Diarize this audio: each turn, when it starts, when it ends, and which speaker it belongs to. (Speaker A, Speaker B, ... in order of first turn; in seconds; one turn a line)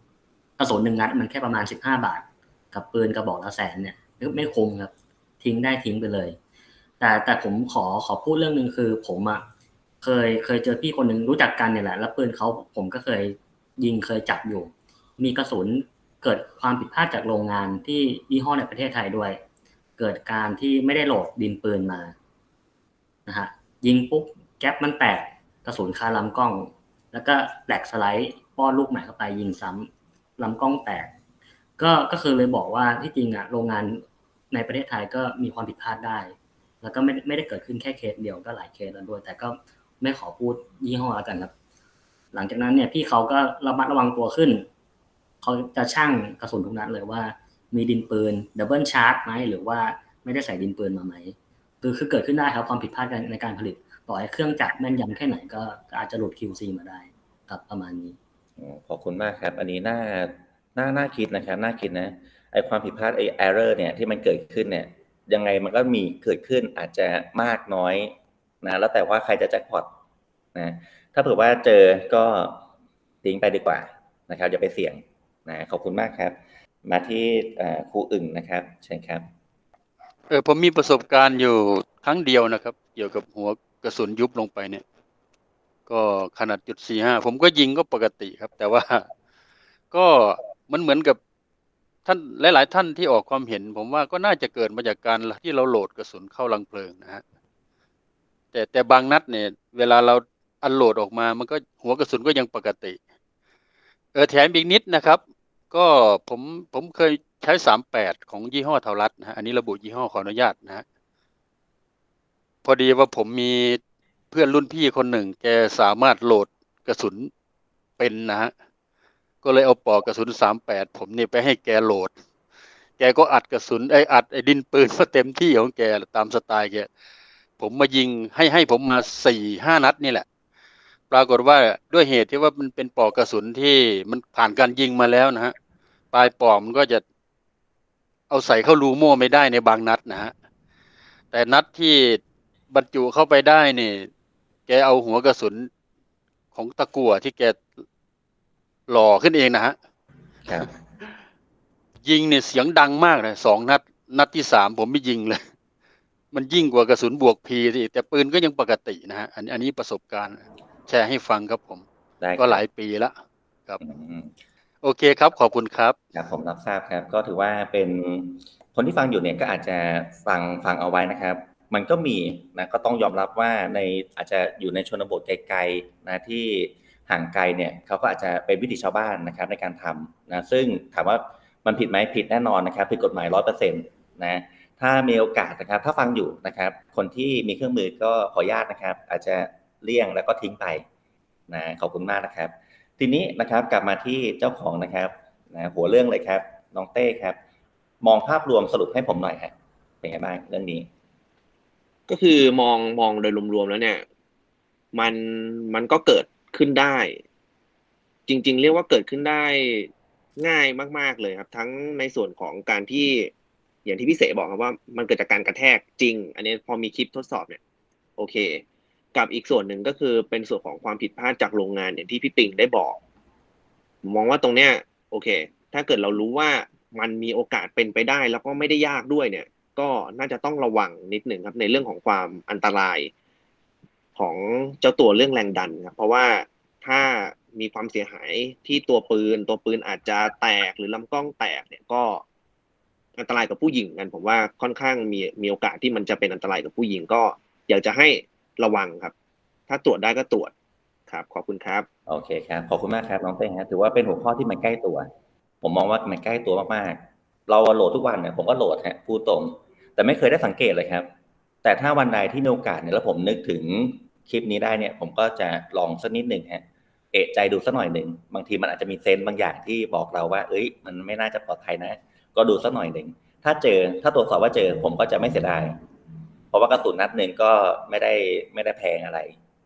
Speaker A: 0.6-6.4
Speaker A: 7.0-9.4
Speaker A: 10.0-19.4
Speaker A: 20.0-22.1
Speaker A: 23.3-31.1
Speaker A: 31.8-41.5
Speaker A: 42.3-44.6
Speaker A: 45.4-58.1
Speaker B: 58.6-69.9
Speaker B: 70.5-72.7
Speaker B: 73.2-79.3
Speaker C: 80.3-84.8
Speaker C: 85.9-89.1
Speaker C: 89.9-91.2
Speaker C: 92.0-97.2
Speaker C: 98.5-103.0
Speaker C: 104.1-110.8
Speaker C: 112.6-117.3
Speaker C: 118.0-118.5
Speaker C: 119.4-122.1
Speaker C: 123.0-126.9
Speaker C: 127.6-130.2
Speaker C: 131.1-135.5
Speaker C: 136.1-137.0
Speaker C: 138.3-140.3
Speaker C: 141.3-144.1
Speaker C: 144.7-145.7
Speaker C: 146.5-147.8
Speaker C: 148.9-149.8
Speaker B: 150.5-150.8
Speaker C: 152.0-155.4
Speaker C: 156.3-161.8
Speaker B: 162.2-162.6
Speaker C: 162.4-163.2
Speaker B: 163.8-164.3
Speaker C: 164.8-166.0
Speaker B: 166.1-190.8
Speaker B: 191.5-197.4
Speaker B: 198.0-200.9
Speaker D: 202.1-204.0
Speaker D: 204.9-207.2
Speaker D: 208.3-213.3
Speaker D: 213.8-217.6
Speaker D: 218.2-218.6
Speaker D: 219.1-223.0
Speaker D: 224.0-233.1
Speaker D: 234.2-242.2
Speaker D: 243.2-249.1
Speaker D: 249.7-250.5
Speaker D: 251.1-251.8
Speaker B: 252.1-255.1
Speaker B: 255.6-261.1
Speaker B: 261.6-275.8
Speaker B: 276.5-279.4